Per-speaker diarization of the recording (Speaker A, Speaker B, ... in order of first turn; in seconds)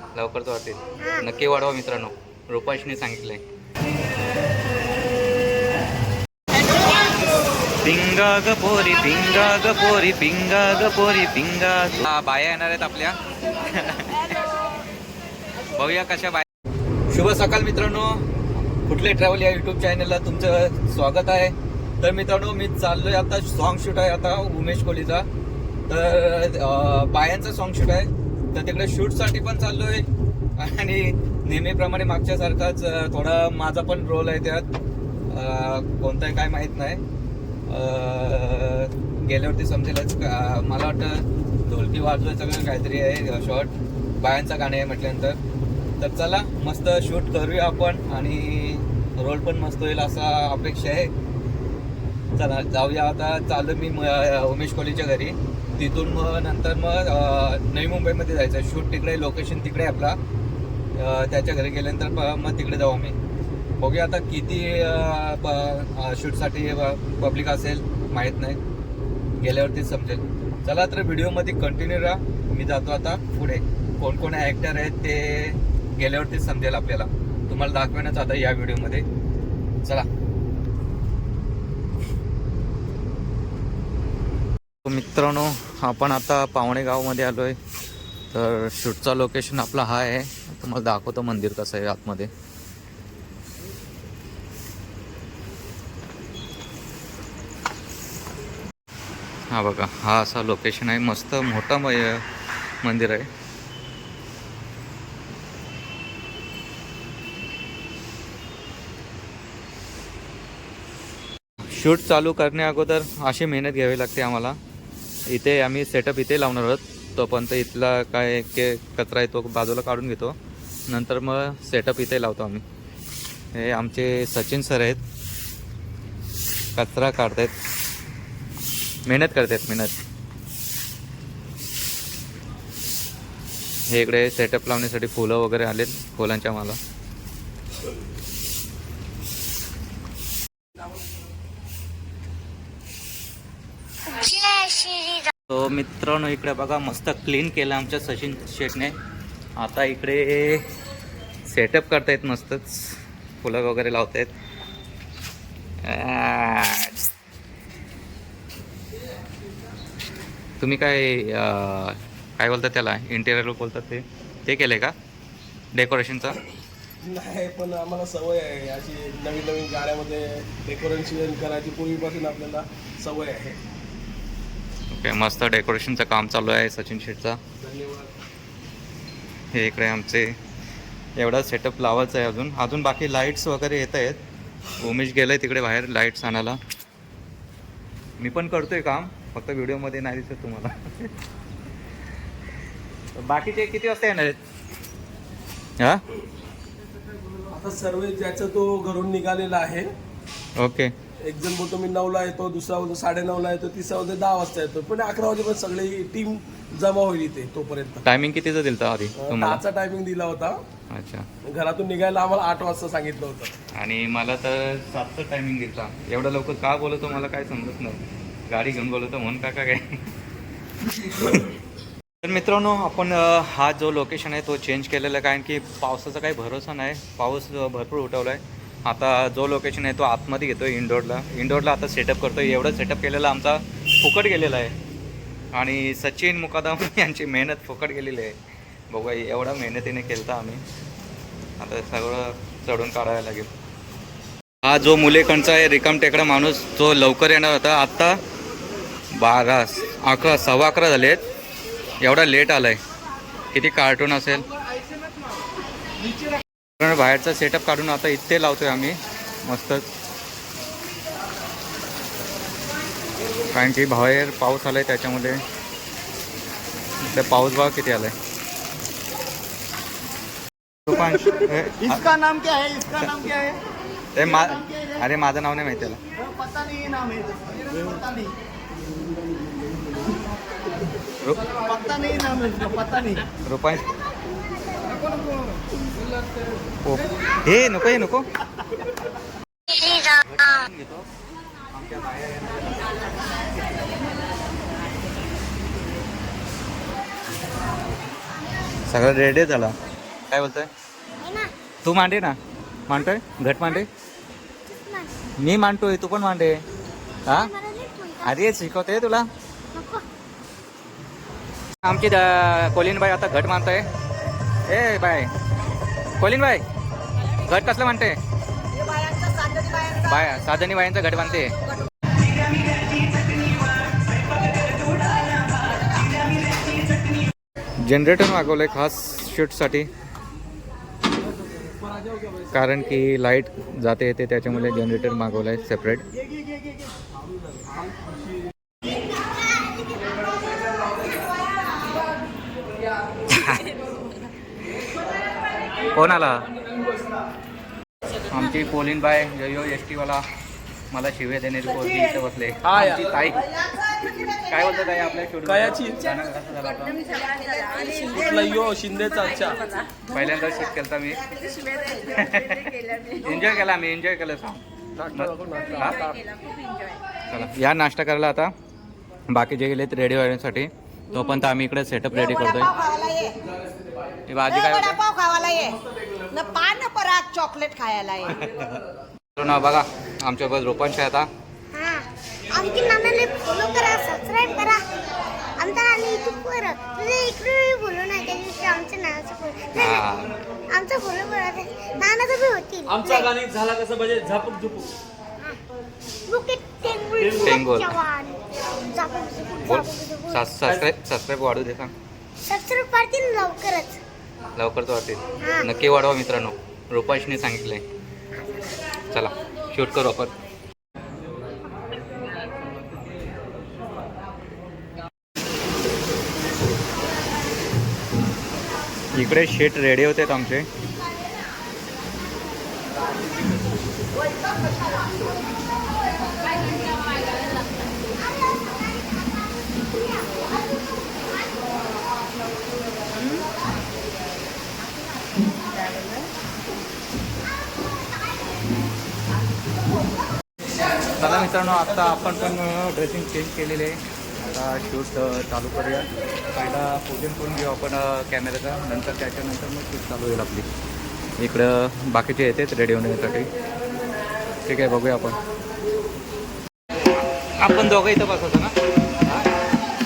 Speaker A: 0.1-3.4, 7.8-14.4, 15.7-16.5, 17.1-18.2, 18.9-25.3, 25.9-30.1, 30.6-34.6, 35.3-37.0, 37.7-45.4, 46.0-51.1, 52.4-60.2, 61.0-63.1, 63.8-68.6, 69.4-79.0, 84.8-87.6, 88.3-92.3, 99.5-102.2, 102.8-103.3, 111.7-114.6, 115.3-120.4, 120.9-122.6, 123.5-125.0, 126.8-127.5, 129.1-130.0, 133.9-136.8, 145.5-148.9, 149.6-150.7, 151.5-154.3, 155.8-157.0, 160.6-164.9, 165.7-166.4, 174.9-177.4, 179.5-180.3, 181.2-184.2, 184.8-186.6, 188.2-191.1, 193.2-194.4, 200.6-200.9, 208.1-209.6, 210.9-211.3, 213.8-220.0, 220.9-221.5, 222.2-234.7, 235.5-238.3, 238.9-240.6, 241.6-243.5, 244.6-248.2, 249.2-251.2, 252.0-252.8, 253.5-254.5, 256.8-259.9, 263.5-265.4, 267.0-268.1, 270.9-272.0, 274.1-276.0, 283.5-283.9, 286.9-288.2, 290.2-291.1, 291.7-293.3, 298.9-299.7, 300.3-300.7, 301.8-302.4, 302.9-303.9, 305.4-306.6, 308.2-309.2, 311.8-313.9, 314.7-315.3, 316.2-316.6, 317.5-318.2, 320.1-321.5, 327.8-329.9, 332.5-336.1, 343.3-343.7, 345.9-346.5, 348.3-350.2, 350.9-353.4, 354.5-357.1, 360.1-361.2, 362.1-364.6, 365.1-366.0, 367.3-368.5, 369.3-372.7, 374.3-375.0, 379.4-381.3, 389.8-390.3, 393.0-394.8, 397.4-398.0, 399.7-401.9, 404.6-407.8, 409.1-410.3, 419.1-420.7, 441.2-444.0, 444.5-450.7, 451.4-453.5, 454.7-455.4, 457.6-458.7
Speaker B: 1.0-1.3, 144.1-145.3, 289.8-290.2, 301.2-301.5, 304.7-305.2, 307.3-308.6, 309.7-310.1, 381.7-384.9, 385.6-390.1, 390.7-393.3, 396.3-400.5, 402.5-404.0, 405.4-405.7
Speaker C: 167.0-173.6, 177.6-178.1, 197.5-199.9, 201.2-208.1, 209.2-210.6, 211.5-213.5, 331.9-332.3, 352.6-353.2, 355.4-356.0, 358.1-359.7, 365.0-366.2
Speaker D: 271.8-273.6, 274.2-275.0, 276.2-278.3, 281.6-283.3
Speaker E: 318.7-320.3, 361.5-362.1, 372.1-373.3, 374.4-378.4, 435.8-436.2